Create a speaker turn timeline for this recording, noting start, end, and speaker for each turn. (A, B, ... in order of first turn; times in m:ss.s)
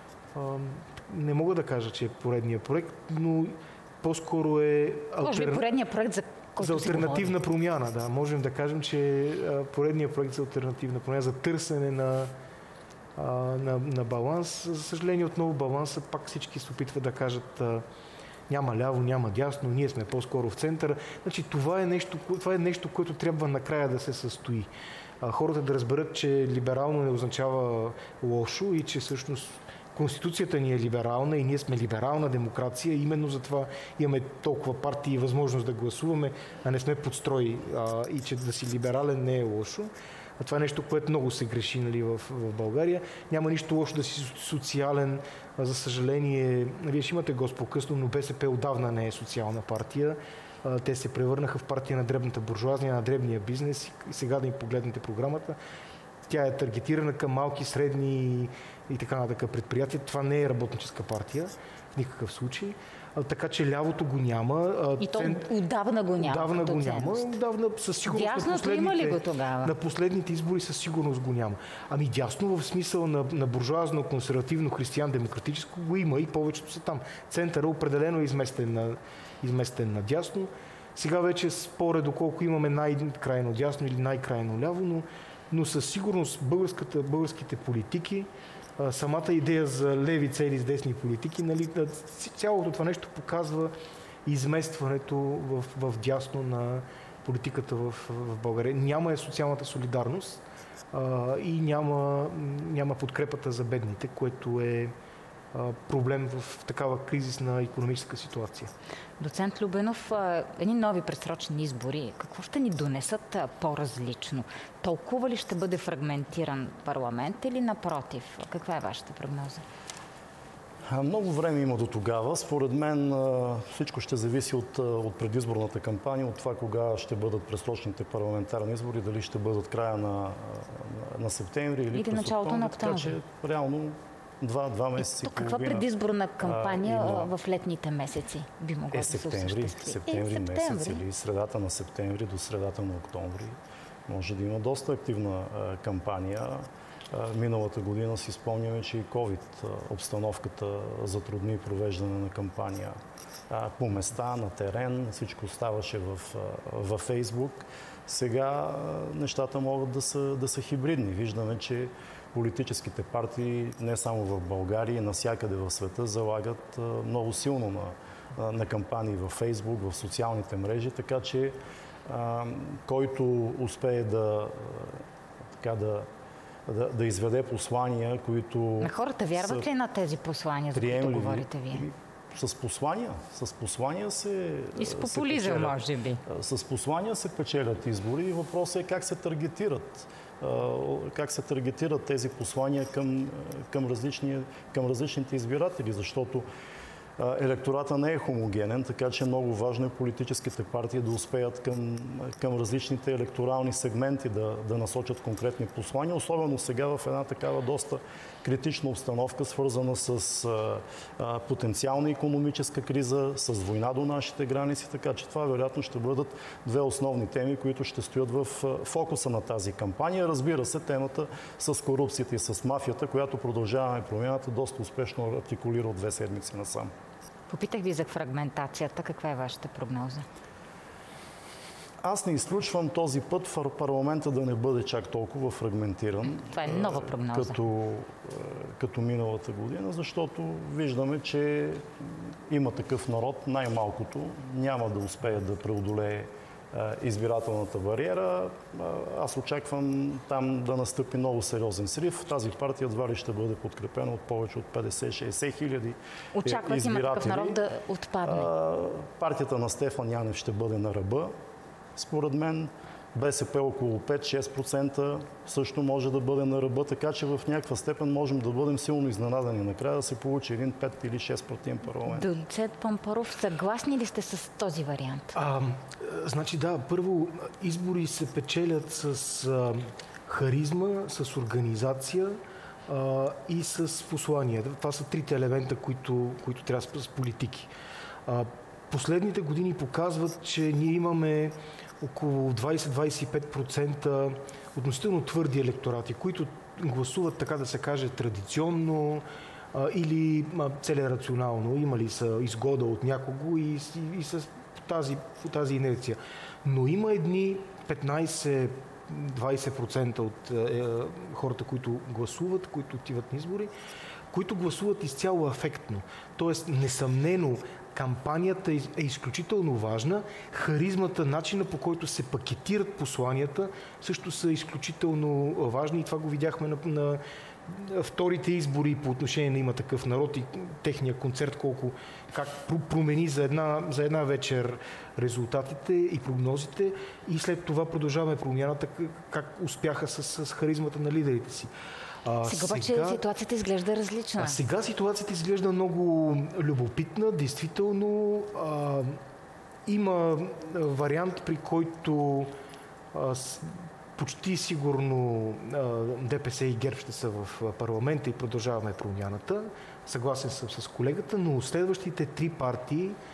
0:00.3-0:05.7 A
0:05.2-0:07.3 B
0:06.6-0:12.3 A
0:13.2-0:17.8 A
0:18.5-0:24.7 A
0:25.2-0:55.6 A
0:56.3-1:05.5 A
1:05.0-1:07.3 B
1:06.2-1:33.7 A
1:08.0-1:09.7 B
1:34.2-1:44.9 A
1:45.5-1:48.7 A
1:49.2-1:59.6 B
2:00.9-2:15.8 C
2:11.9-2:13.2 B
2:15.0-2:21.0 B
2:16.4-2:17.3 C
2:18.9-2:33.0 C
2:33.5-2:55.0 C
2:55.6-2:56.1 C
2:56.6-2:59.6 C
2:58.8-3:01.8 B
3:00.7-3:16.4 C
3:04.8-3:06.2 B
3:17.2-3:46.9 C
3:47.5-3:50.2 B
3:52.0-4:17.6 C
3:56.4-3:57.6 B
4:16.3-4:18.5 B
4:18.2-4:21.3 C
4:21.9-4:32.3 C
4:32.1-4:35.3 B
4:35.3-4:47.7 A
4:48.2-5:13.7 A
5:14.3-5:41.7 A
5:42.2-5:43.2 A
5:42.4-5:44.6 B
5:44.4-5:49.2 A
5:49.8-5:52.5 A
5:53.1-6:03.2 A